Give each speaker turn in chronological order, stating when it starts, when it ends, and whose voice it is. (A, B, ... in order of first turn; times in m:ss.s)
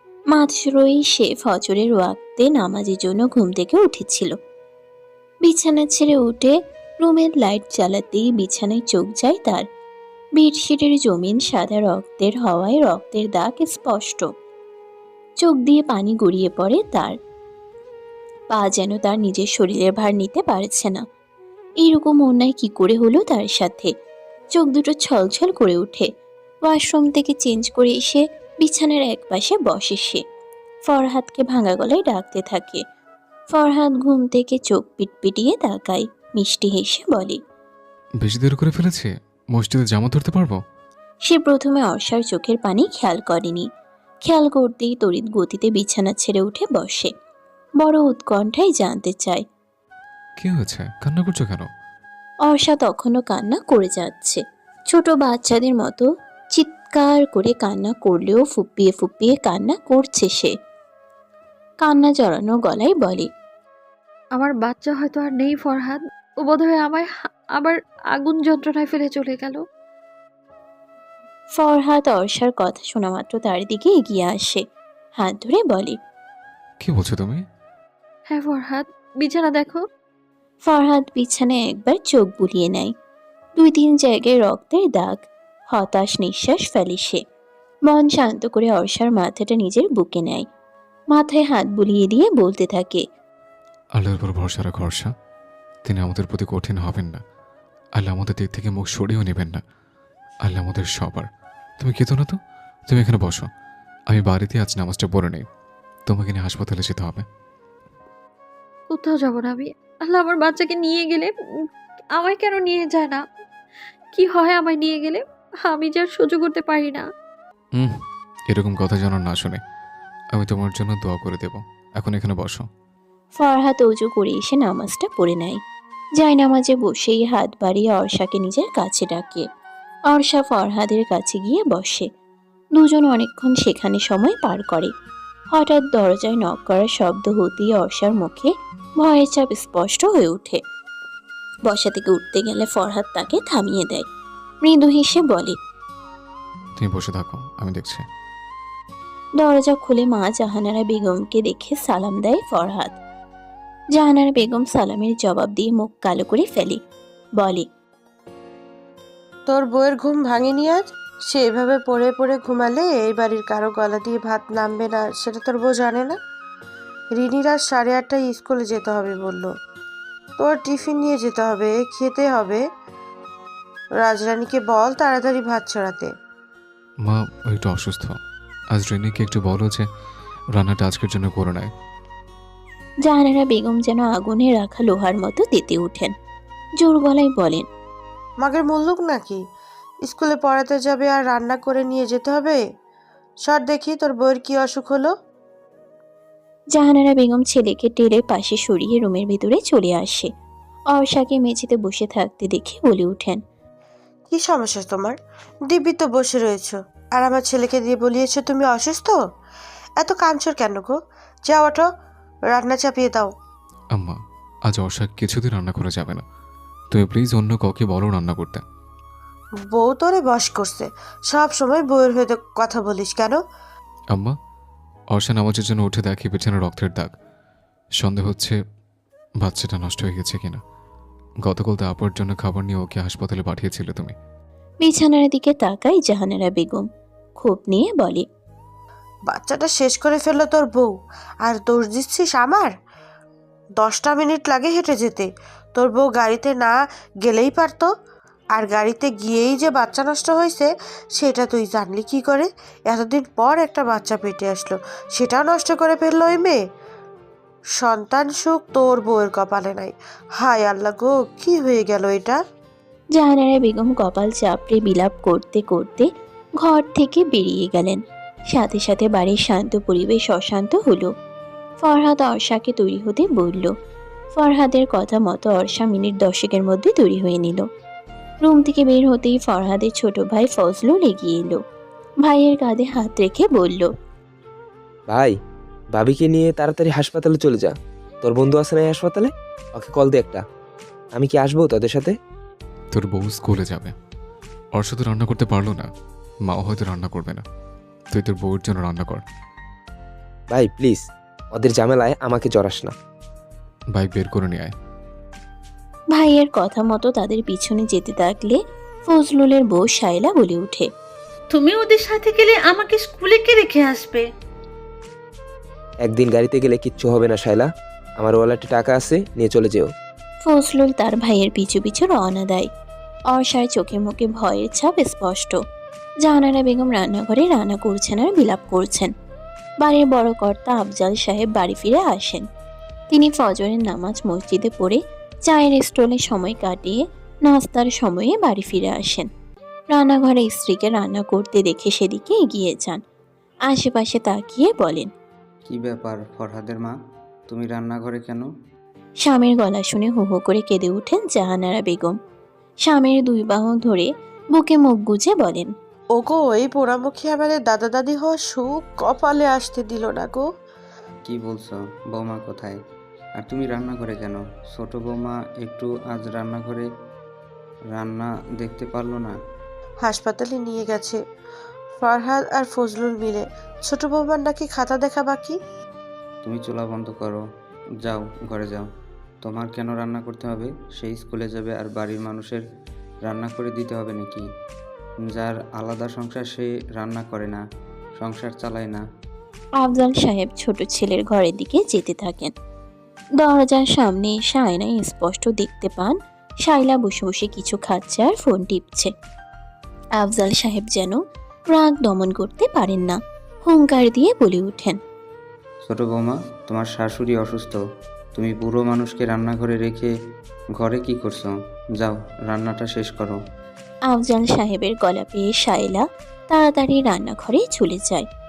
0:00.3-0:04.4 A
0:05.4-0:09.6 A
0:10.4-0:14.3 A
0:15.4-0:17.2 A
0:18.5-0:21.0 A
0:21.8-0:23.9 A
0:24.5-0:26.1 A
0:26.6-0:30.2 A
0:30.9-0:32.8 A
0:33.5-0:37.4 A
0:38.2-0:40.6 B
0:41.3-0:43.7 A
0:44.3-0:47.1 A
0:47.8-0:49.4 A
0:50.4-0:51.7 B
0:52.5-1:00.5 A
1:01.8-1:03.3 A
1:04.4-1:09.6 C
1:11.6-1:14.6 A
1:15.2-1:16.0 A
1:16.8-1:17.4 B
1:18.3-1:19.8 C
1:20.7-1:22.9 A
1:23.6-1:27.2 A
1:27.9-1:30.4 A
1:31.1-1:33.0 A
1:34.0-1:35.1 B
1:35.8-1:37.2 B
1:38.0-1:39.6 B
1:40.4-1:41.3 B
1:41.8-1:43.5 B
1:44.1-1:45.4 B
1:46.1-1:47.2 B
1:48.9-1:51.3 C
1:52.2-1:53.2 C
1:54.1-1:57.0 C
1:57.8-1:59.6 B
2:00.4-2:02.7 B
2:03.4-2:05.6 A
2:06.2-2:09.5 A
2:10.1-2:12.1 A
2:12.8-2:14.9 A
2:15.5-2:20.6 A
2:21.7-2:24.1 A
2:24.6-2:25.6 A
2:26.8-2:28.0 B
2:29.4-2:33.0 A
2:34.0-2:36.8 A
2:37.4-2:37.7 A
2:39.5-2:46.2 D
2:47.2-2:49.5 D
2:50.4-2:52.6 D
2:54.0-2:56.1 D
2:57.0-2:58.2 B
2:58.7-2:59.9 B
3:00.5-3:01.7 B
3:03.1-3:06.1 A
3:06.8-3:07.7 A
3:08.4-3:09.4 D
3:10.1-3:12.6 D
3:13.5-3:15.1 D
3:16.8-3:20.3 A
3:20.9-3:23.4 A
3:24.3-3:25.2 D
3:25.7-3:29.2 D
3:30.0-3:31.0 D
3:31.5-3:31.9 D
3:32.5-3:33.3 D
3:33.9-3:36.2 B
3:36.9-3:38.6 B
3:39.7-3:43.4 D
3:45.1-3:47.1 B
3:48.0-3:48.6 B
3:49.4-3:50.6 B
3:51.4-3:54.1 B
3:54.8-3:56.9 A
3:57.4-3:58.3 A
3:59.3-4:02.7 D
4:03.8-4:07.9 D
4:08.6-4:16.6 D
4:17.8-4:22.4 D
4:23.2-4:26.1 A
4:26.6-4:28.0 A
4:28.5-4:31.1 A
4:31.8-4:33.7 A
4:34.4-4:37.7 A
4:38.4-4:41.6 A
4:42.2-4:43.9 A
4:46.0-4:47.7 E
4:48.2-4:50.4 E
4:51.2-4:52.1 E
4:52.9-4:53.9 B
4:54.8-4:55.9 B
4:56.5-4:57.4 B
4:58.1-4:59.2 B
5:00.5-5:01.0 E
5:01.6-5:02.9 E
5:03.9-5:04.7 B
5:06.2-5:10.9 A
5:11.5-5:14.3 F
5:16.0-5:17.7 E
5:18.2-5:19.9 E
5:20.4-5:22.7 A
5:23.3-5:25.6 A
5:26.2-5:29.1 A
5:29.8-5:32.4 A
5:33.1-5:39.3 A
5:39.9-5:43.0 A
5:43.7-5:45.1 A
5:45.7-5:47.0 G
5:47.5-5:48.5 G
5:49.2-5:52.2 A
5:52.8-5:55.7 A
5:56.2-6:00.5 D
6:01.3-6:02.8 G
6:03.4-6:06.9 G
6:07.9-6:09.4 G
6:10.0-6:11.2 D
6:12.0-6:15.6 D
6:16.4-6:17.4 G
6:18.0-6:18.9 G
6:19.4-6:22.6 G
6:23.2-6:24.5 G
6:25.3-6:27.6 G
6:28.2-6:29.0 G
6:29.8-6:32.5 A
6:33.4-6:39.1 A
6:40.2-6:45.0 A
6:45.8-6:47.8 G
6:48.4-6:50.1 G
6:50.8-6:53.4 G
6:54.1-6:58.3 A